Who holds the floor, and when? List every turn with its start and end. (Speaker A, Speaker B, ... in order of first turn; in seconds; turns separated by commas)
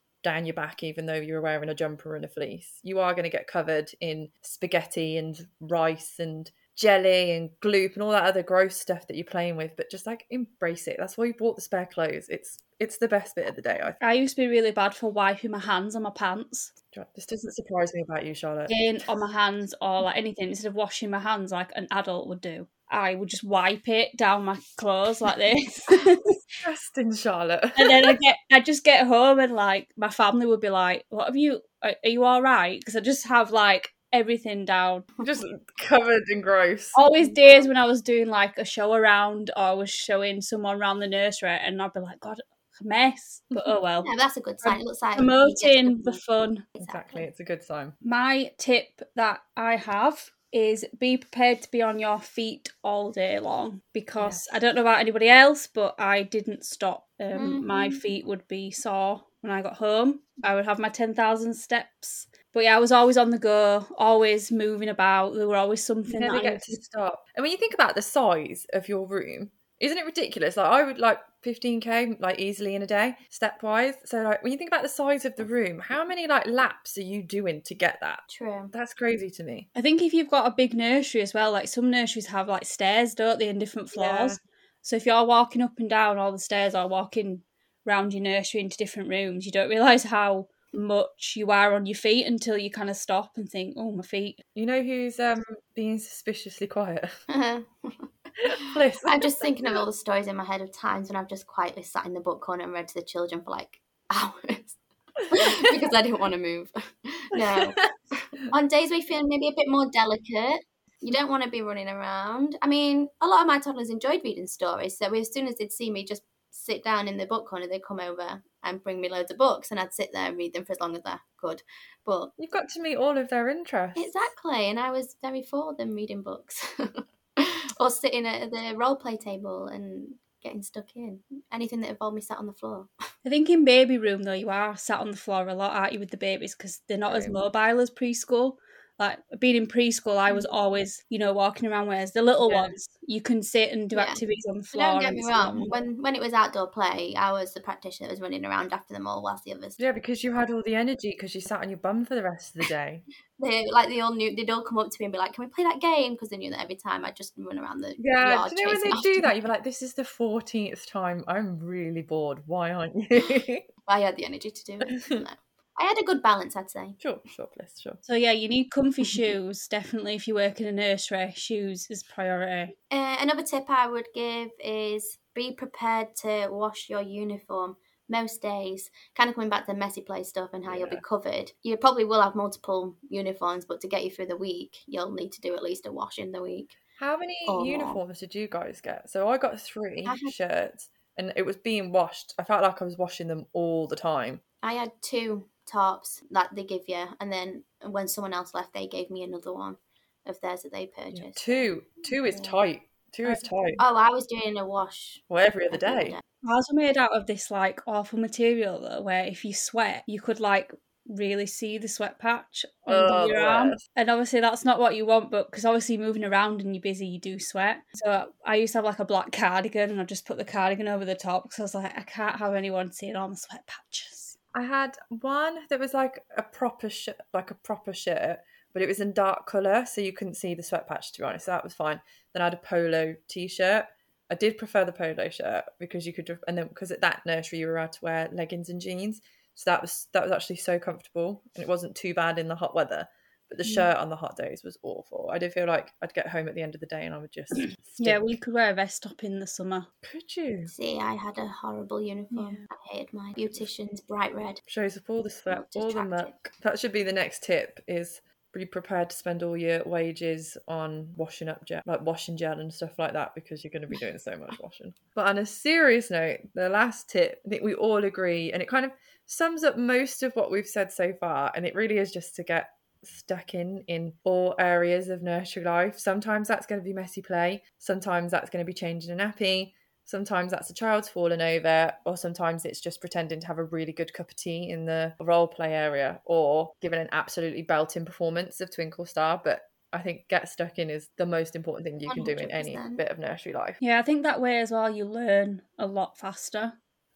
Speaker A: 0.2-14.0, Speaker B: 14.0-16.7, Speaker A: 16.9-18.8, Speaker B: 18.7-26.3, Speaker A: 26.6-28.1, Speaker B: 27.7-35.0, Speaker A: 35.2-37.0, Speaker B: 36.9-44.1, Speaker C: 37.2-37.7, Speaker C: 44.0-46.2, Speaker B: 44.6-46.6, Speaker C: 46.8-47.3, Speaker A: 46.8-48.0, Speaker B: 48.0-66.7, Speaker A: 54.2-54.4, Speaker C: 57.3-58.0, Speaker A: 66.1-79.7, Speaker C: 78.3-78.7, Speaker B: 79.7-94.4, Speaker A: 83.9-84.4, Speaker A: 94.5-97.1, Speaker C: 97.3-122.3, Speaker A: 98.6-99.4, Speaker A: 122.4-124.1, Speaker C: 123.9-132.9, Speaker B: 133.2-145.7, Speaker A: 137.0-137.4, Speaker C: 140.3-140.5, Speaker A: 142.4-142.7, Speaker C: 143.9-144.2, Speaker C: 144.7-149.8, Speaker A: 149.8-153.0, Speaker C: 153.4-159.4, Speaker A: 158.0-163.6, Speaker C: 163.8-167.0, Speaker A: 167.0-168.0, Speaker B: 168.0-172.7, Speaker C: 172.9-186.8, Speaker A: 180.7-181.0, Speaker A: 187.0-194.4, Speaker C: 187.5-188.0, Speaker C: 190.0-190.3, Speaker C: 194.6-202.6, Speaker A: 201.1-203.8, Speaker C: 203.8-206.2, Speaker A: 205.3-206.2, Speaker B: 206.4-224.3, Speaker A: 212.9-213.8, Speaker A: 224.5-248.3, Speaker B: 247.5-249.9, Speaker A: 250.0-250.7, Speaker C: 250.7-254.6, Speaker A: 252.3-252.6, Speaker A: 254.7-293.8, Speaker C: 255.5-256.4, Speaker C: 292.1-293.0, Speaker B: 293.8-296.8